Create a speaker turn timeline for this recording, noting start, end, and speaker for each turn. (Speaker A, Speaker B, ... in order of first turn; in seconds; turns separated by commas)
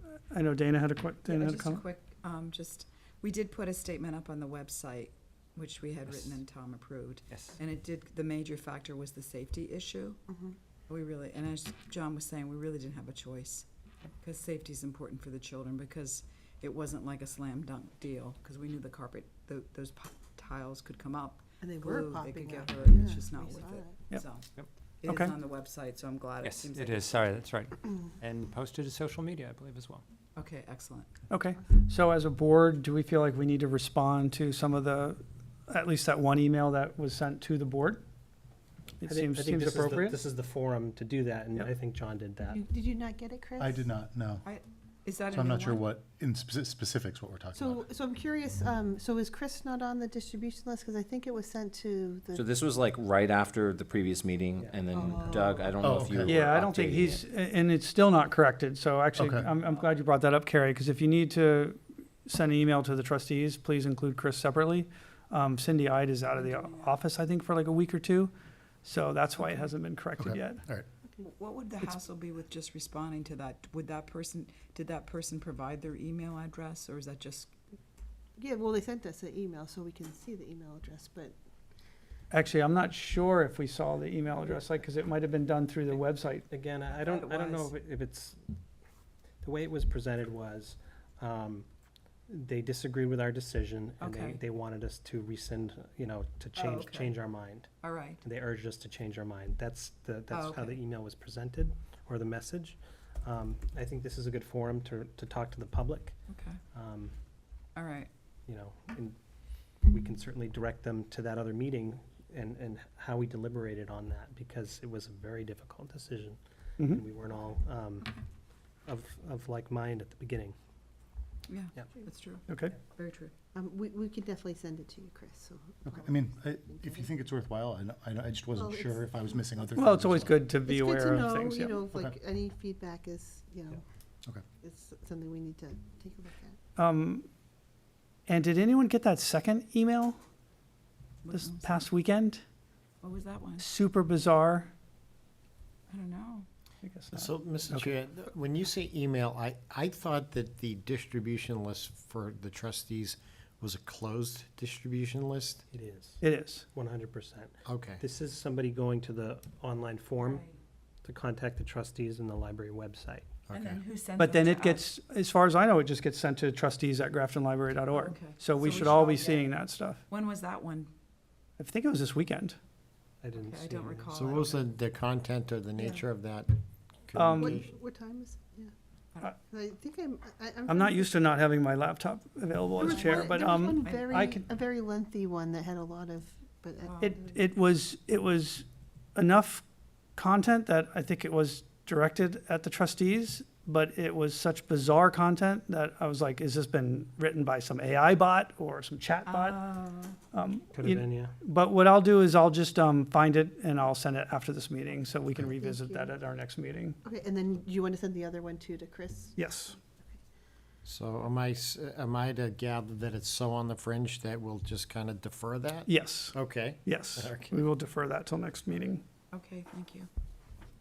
Speaker A: 0.1-1.8, Speaker B: 1.2-10.2, Speaker C: 6.1-6.4, Speaker C: 7.3-7.6, Speaker D: 10.3-10.6, Speaker B: 10.9-13.7, Speaker B: 14.2-27.3, Speaker D: 21.6-24.1, Speaker A: 25.1-25.3, Speaker C: 26.4-30.0, Speaker B: 30.4-31.2, Speaker A: 31.3-38.0, Speaker A: 39.0-40.2, Speaker E: 39.0-42.6, Speaker D: 42.5-43.9, Speaker F: 43.6-44.5, Speaker B: 44.4-45.9, Speaker F: 45.3-47.9, Speaker D: 47.5-52.5, Speaker G: 52.3-57.2, Speaker D: 54.9-55.8, Speaker F: 55.8-56.4, Speaker A: 56.3-68.3, Speaker F: 59.2-59.5, Speaker B: 59.6-60.0, Speaker B: 66.3-67.0, Speaker A: 68.8-70.7, Speaker F: 70.2-70.9, Speaker B: 71.2-77.5, Speaker D: 78.4-81.3, Speaker A: 82.3-86.5, Speaker E: 85.9-88.4, Speaker B: 86.8-87.8, Speaker E: 89.4-91.7, Speaker E: 92.3-106.2, Speaker B: 94.0-94.4, Speaker B: 96.5-97.2, Speaker B: 97.8-98.2, Speaker B: 100.3-100.8, Speaker B: 106.3-106.6, Speaker E: 106.7-107.1, Speaker B: 107.8-108.1, Speaker E: 108.5-109.2, Speaker E: 109.8-118.1, Speaker E: 118.8-120.6, Speaker B: 121.5-123.3, Speaker A: 122.5-122.8, Speaker D: 123.5-127.1, Speaker F: 125.8-130.5, Speaker D: 128.5-129.6, Speaker A: 129.8-131.8, Speaker D: 130.5-133.8, Speaker D: 134.6-136.6, Speaker A: 136.8-137.3, Speaker A: 138.3-140.2, Speaker B: 141.2-141.9, Speaker A: 141.3-142.4, Speaker B: 143.0-143.7, Speaker A: 143.6-144.7, Speaker B: 145.9-146.5, Speaker A: 146.8-147.9, Speaker H: 147.1-155.6, Speaker E: 155.7-160.4, Speaker A: 156.2-156.7, Speaker H: 157.7-158.0, Speaker B: 160.2-160.6, Speaker E: 161.0-163.4, Speaker H: 163.5-163.8, Speaker B: 163.5-164.9, Speaker A: 164.2-170.0, Speaker B: 167.9-170.9, Speaker A: 171.6-172.6, Speaker E: 173.2-174.2, Speaker B: 173.3-174.6, Speaker H: 174.1-177.7, Speaker A: 177.2-177.6, Speaker D: 177.4-178.7, Speaker D: 179.4-181.3, Speaker A: 180.7-184.4, Speaker D: 182.7-187.4, Speaker B: 183.8-184.3, Speaker B: 186.8-187.2, Speaker A: 187.0-189.7, Speaker A: 190.2-199.6, Speaker B: 199.3-200.2, Speaker A: 200.3-207.0, Speaker E: 200.7-201.3, Speaker D: 205.6-206.1, Speaker D: 207.0-209.5, Speaker A: 209.4-209.8, Speaker H: 210.8-217.6, Speaker A: 215.9-219.0, Speaker B: 219.3-220.1